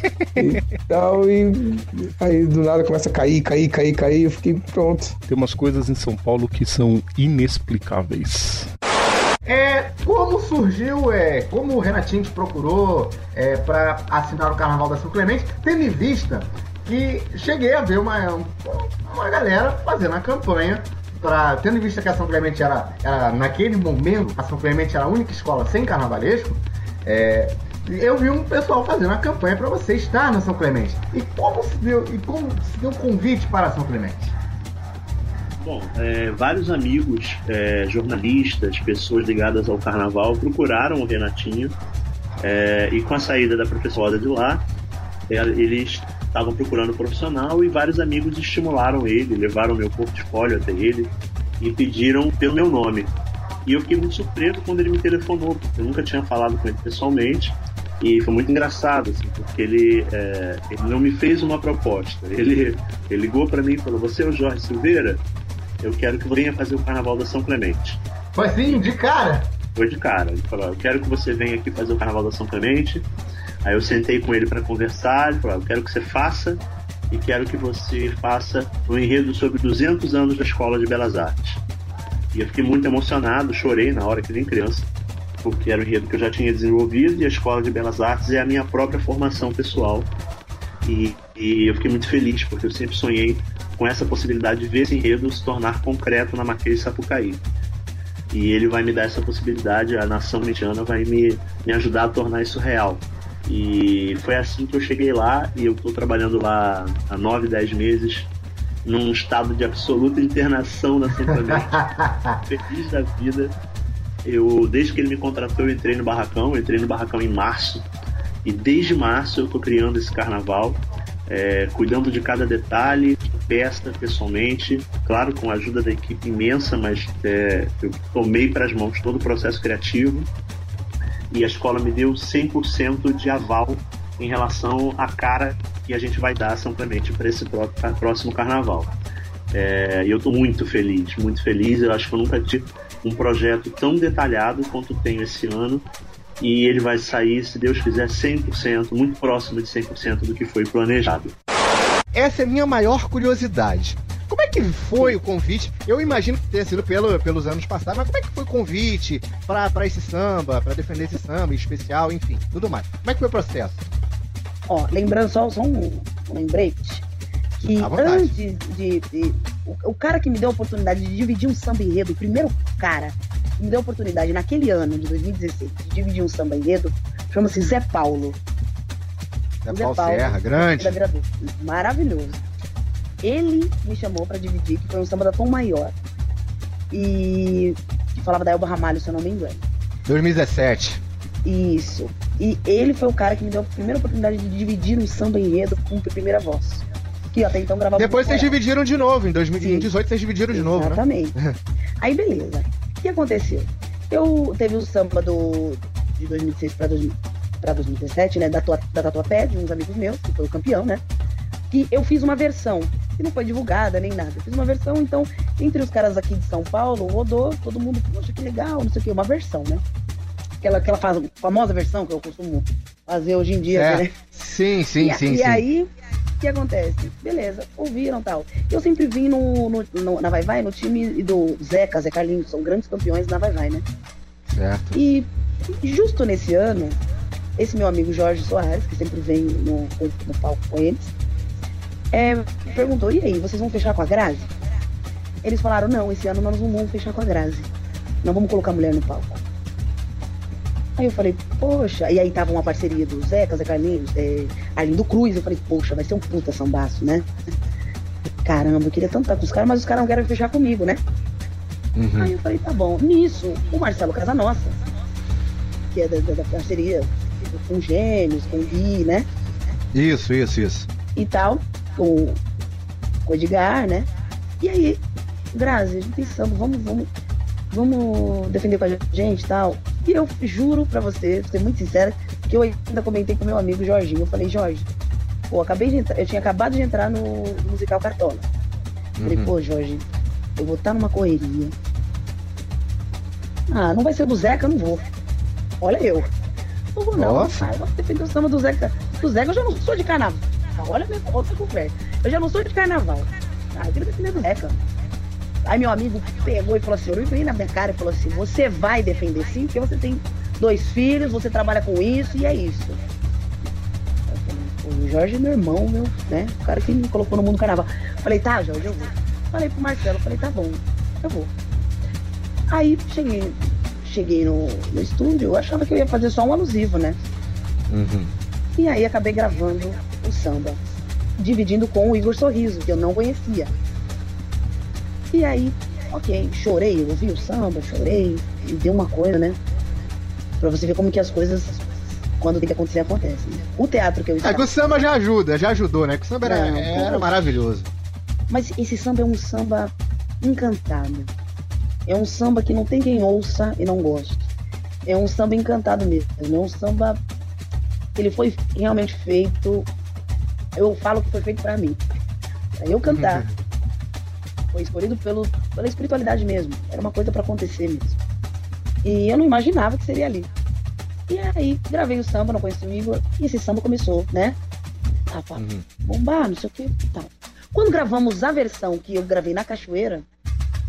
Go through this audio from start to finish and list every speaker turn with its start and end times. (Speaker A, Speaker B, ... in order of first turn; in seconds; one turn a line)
Speaker A: 0.4-5.2
Speaker B: 5.3-8.7
Speaker C: 9.4-34.4
Speaker D: 35.6-41.7
Speaker D: 42.4-44.6
Speaker D: 45.3-53.1
Speaker D: 53.7-65.2
Speaker D: 65.8-68.0
Speaker C: 68.4-69.5
Speaker D: 69.8-73.0
Speaker D: 73.7-81.6
Speaker D: 82.3-84.9
Speaker D: 85.4-90.1
Speaker D: 90.8-97.4
Speaker D: 98.3-108.3
Speaker D: 108.8-111.8
Speaker C: 111.8-112.4
Speaker D: 112.5-113.5
Speaker D: 114.2-117.8
Speaker D: 118.5-130.3
Speaker D: 131.3-138.9
Speaker D: 139.5-145.8
Speaker D: 146.4-151.3
Speaker C: 152.1-163.9
Speaker E: 164.7-167.1
Speaker E: 167.6-178.4
Speaker C: 167.8-168.3
Speaker C: 179.7-181.0
Speaker E: 179.7-182.4
Speaker E: 183.2-185.9
Speaker E: 186.9-189.6
Speaker C: 190.1-191.0
Speaker E: 191.4-198.5
Speaker C: 198.0-201.6
Speaker E: 199.6-199.9
Speaker E: 200.5-201.3
Speaker E: 202.0-211.0
Speaker E: 211.7-219.8
Speaker E: 220.6-224.1
Speaker C: 223.7-225.7
Speaker E: 225.0-233.8
Speaker C: 234.5-235.0
Speaker E: 234.9-237.0
Speaker E: 237.6-241.1
Speaker E: 242.1-244.5
Speaker E: 245.4-247.7
Speaker E: 248.2-249.4
Speaker E: 251.0-257.3
Speaker E: 258.4-261.0
Speaker C: 262.0-262.3
Speaker E: 262.1-264.8
Speaker E: 265.9-269.3
Speaker C: 269.9-270.9
Speaker E: 271.1-272.4
Speaker E: 273.3-274.1
Speaker E: 274.6-275.0
Speaker E: 275.5-277.1
Speaker E: 277.7-284.9
Speaker E: 285.5-288.5
Speaker C: 289.2-289.5
Speaker E: 289.2-290.0
Speaker E: 290.6-291.7
Speaker E: 293.7-295.0
Speaker E: 295.8-296.3
Speaker E: 296.9-304.8
Speaker C: 297.1-297.7
Speaker E: 305.6-313.0
Speaker E: 314.3-321.5
Speaker E: 322.7-327.2
Speaker C: 327.9-328.3
Speaker E: 328.8-330.8
Speaker E: 331.4-333.7
Speaker E: 335.3-339.6
Speaker E: 340.6-341.8
Speaker E: 342.4-344.8
Speaker C: 344.4-347.9
Speaker E: 346.4-347.4
Speaker E: 348.5-351.3
Speaker E: 352.1-354.5
Speaker E: 355.1-357.2
Speaker E: 358.2-359.9
Speaker E: 360.8-362.0
Speaker E: 362.8-363.5
Speaker C: 363.1-363.5
Speaker E: 364.7-368.2
Speaker E: 369.0-370.5
Speaker E: 371.3-374.6
Speaker E: 375.3-380.2
Speaker C: 375.6-375.9